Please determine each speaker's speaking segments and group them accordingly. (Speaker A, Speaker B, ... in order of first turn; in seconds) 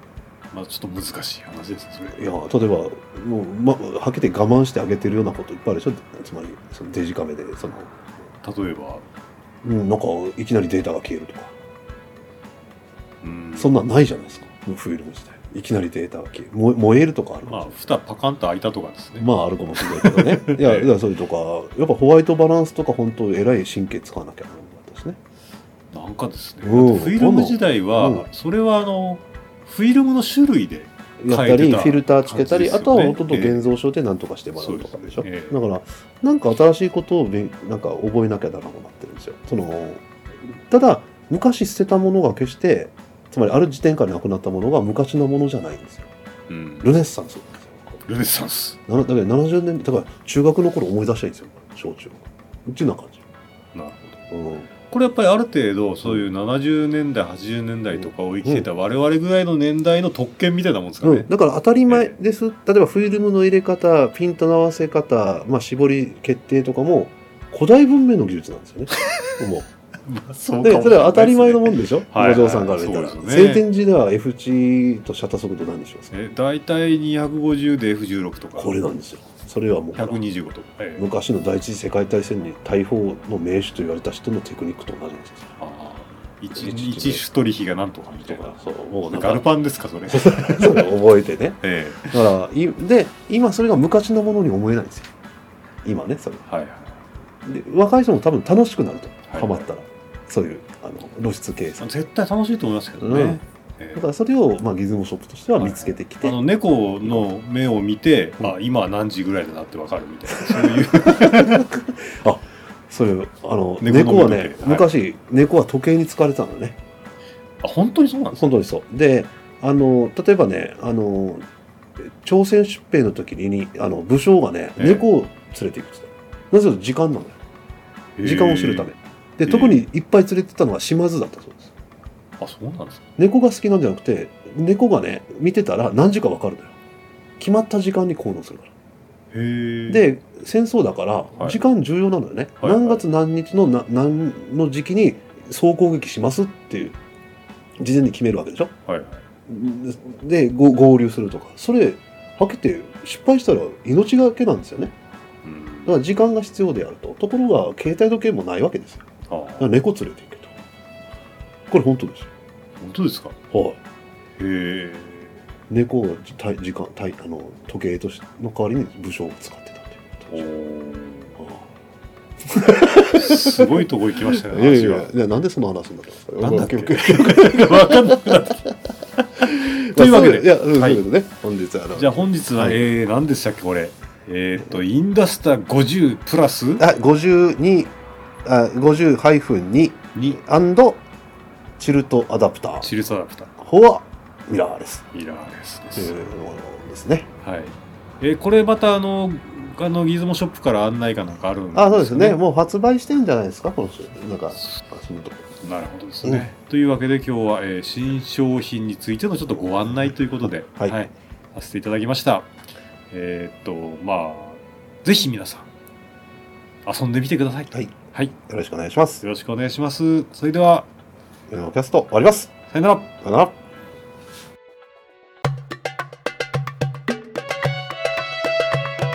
Speaker A: 0.5-2.3, 8.4-9.1, 13.2-13.8, 17.5-20.9, 25.9-33.7, 34.6-35.6, 46.5-46.9, 48.1-48.8, 53.7-54.2, 54.9-61.3, 61.9-62.1, 70.0-73.7, 76.1-78.8, 79.9-81.1, 85.6-91.0, 91.6-92.2, 96.5-97.0, 99.3-99.7, 101.8-104.0, 105.6-111.7, 113.8-114.9, 117.6-118.6, 124.8-125.1, 128.2-128.9, 129.5-129.9, 132.4-133.1, 139.3-140.0, 142.6-143.0, 148.9-149.2, 155.4-156.0, 159.3-159.7, 162.8-163.4, 164.4-165.3, 170.3-171.4, 173.1-175.1, 176.4-178.6, 179.2-181.0, 181.9-186.8, 190.2-190.4, 192.8-193.5, 195.1-196.2, 197.4-202.4, 205.6-212.5, 213.1-215.7, 216.9-218.3, 219.2-220.9, 222.7-223.1
Speaker B: 2.1-7.9, 9.6-11.5, 13.6-17.7, 19.2-25.2, 26.6-28.2, 31.2-40.0, 40.7-46.1, 46.8-48.0, 48.9-53.2, 54.3-54.7, 57.9-58.7, 61.0-69.7, 70.6-76.1, 78.6-80.2, 81.0-85.5, 86.6-87.2, 88.2-89.5, 90.1-95.1, 95.8-96.4, 97.5-101.9, 103.0-103.4, 104.0-106.4, 110.4-116.8, 118.3-121.4, 122.1-127.4, 128.2-131.7, 133.2-136.7, 137.4-138.7, 139.9-147.0, 147.8-148.7, 149.5-154.9, 155.9-159.1, 159.6-160.5, 161.7-162.3, 163.5-163.8, 165.7-170.5, 171.4-171.6, 172.5-178.5, 179.4-182.8, 186.8-187.9, 188.4-191.0, 191.8-192.9, 193.6-195.1, 196.0-197.3, 201.7-205.4, 206.2-206.5, 209.8-211.0, 218.5-219.2, 221.5-222.5, 223.2-223.5